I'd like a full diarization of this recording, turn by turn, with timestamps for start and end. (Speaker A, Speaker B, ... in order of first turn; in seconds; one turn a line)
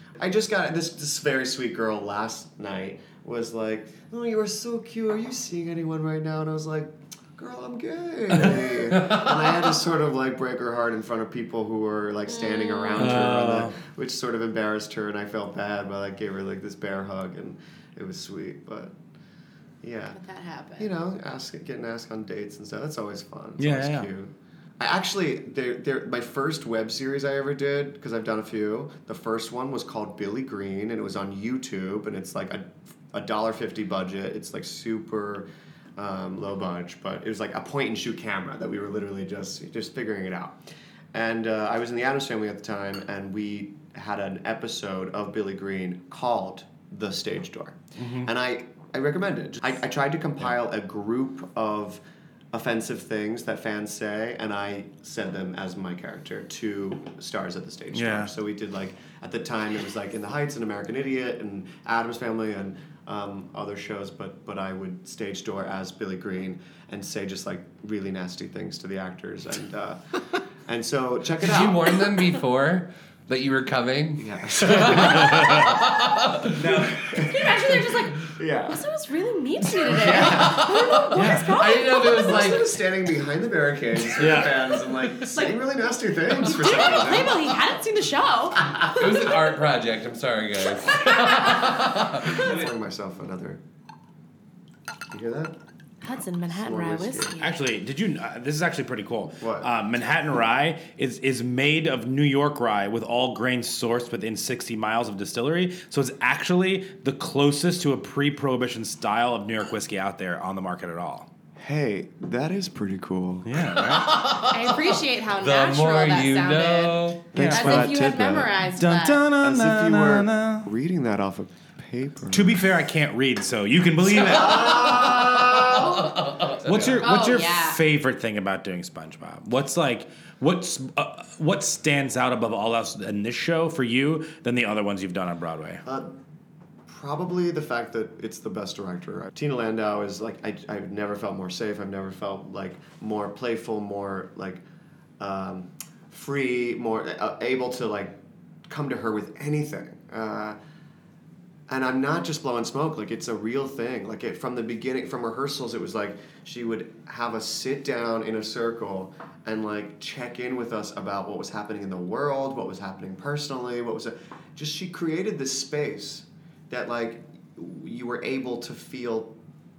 Speaker A: 0.2-18.9
Speaker B: 9.0-9.3
Speaker C: 12.3-13.2
Speaker D: 12.9-13.8
Speaker A: 19.8-20.2
Speaker C: 20.1-20.9
Speaker A: 20.8-40.6
Speaker D: 23.6-24.1
Speaker A: 41.1-52.0
Speaker D: 48.0-48.3
Speaker A: 52.5-70.0
Speaker D: 57.9-58.3
Speaker A: 70.6-72.0
Speaker B: 71.4-76.5
Speaker A: 74.2-75.7
Speaker D: 74.8-75.6
Speaker D: 76.5-77.2
Speaker A: 76.7-78.8
Speaker C: 77.2-82.6
Speaker A: 79.8-80.7
Speaker B: 80.1-82.7
Speaker D: 81.1-81.5
Speaker A: 81.9-87.6
Speaker D: 84.2-84.9
Speaker C: 86.3-88.8
Speaker B: 88.8-92.5
Speaker A: 92.2-93.6
Speaker A: 95.1-95.5
Speaker C: 96.0-97.5
Speaker A: 96.5-97.3
Speaker D: 97.4-111.3
Speaker A: 99.4-99.7
Speaker A: 111.6-113.5
Speaker D: 113.4-114.2
Speaker B: 113.8-117.2
Speaker C: 114.5-119.3
Speaker A: 117.3-118.6
Speaker D: 117.3-120.7
Speaker A: 119.3-122.7
Speaker D: 122.3-124.8
Speaker A: 124.1-125.9
Speaker B: 124.2-127.0
Speaker C: 125.2-126.0
Speaker D: 126.6-135.8
Speaker C: 127.0-127.8
Speaker A: 135.8-136.2
Speaker A: 136.9-144.6
Speaker A: 145.2-150.6
Speaker A: 151.7-169.3